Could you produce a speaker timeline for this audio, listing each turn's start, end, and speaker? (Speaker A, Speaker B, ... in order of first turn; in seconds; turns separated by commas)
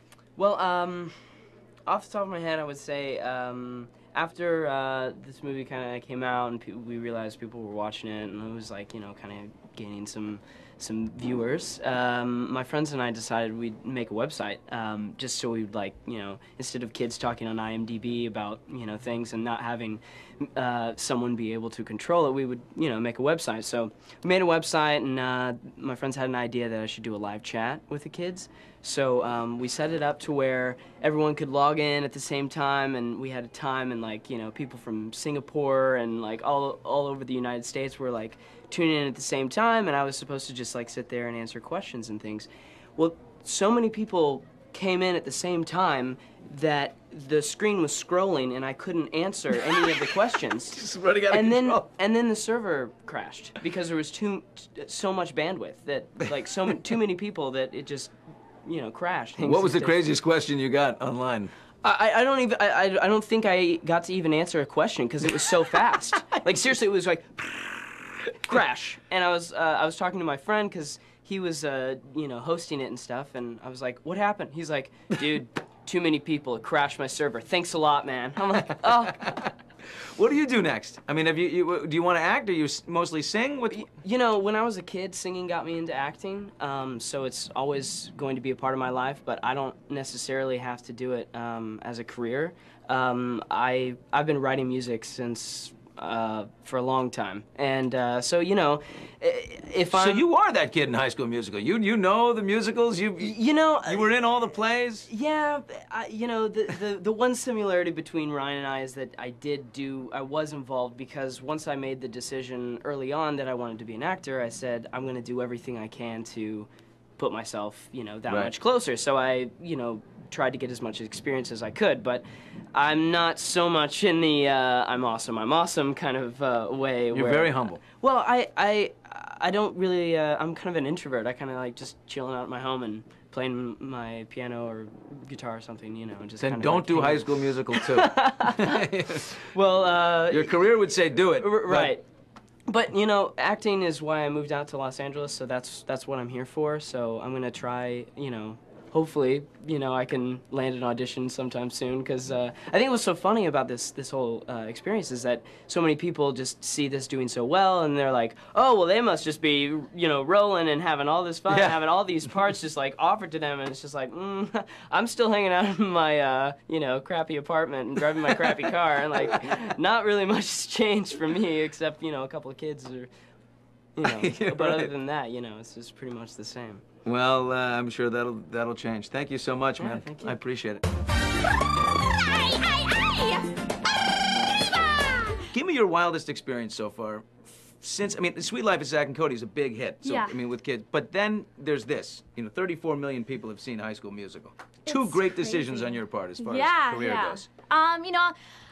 Speaker A: 0.4-58.1, Speaker B: 50.7-51.9, Speaker A: 58.6-60.0, Speaker B: 59.4-61.5, Speaker A: 61.8-79.5, Speaker B: 80.0-83.9, Speaker A: 83.7-100.2, Speaker B: 99.9-105.1, Speaker A: 103.2-104.2, Speaker A: 105.1-140.7, Speaker B: 127.1-127.8, Speaker B: 136.4-139.3, Speaker B: 140.3-141.9, Speaker A: 141.3-142.0, Speaker A: 142.7-173.1, Speaker B: 161.5-161.8, Speaker A: 173.9-176.8, Speaker B: 174.0-174.9, Speaker B: 177.1-180.9, Speaker A: 179.8-180.4, Speaker C: 182.0-185.4, Speaker B: 185.5-197.5, Speaker C: 190.0-190.3, Speaker C: 194.9-198.3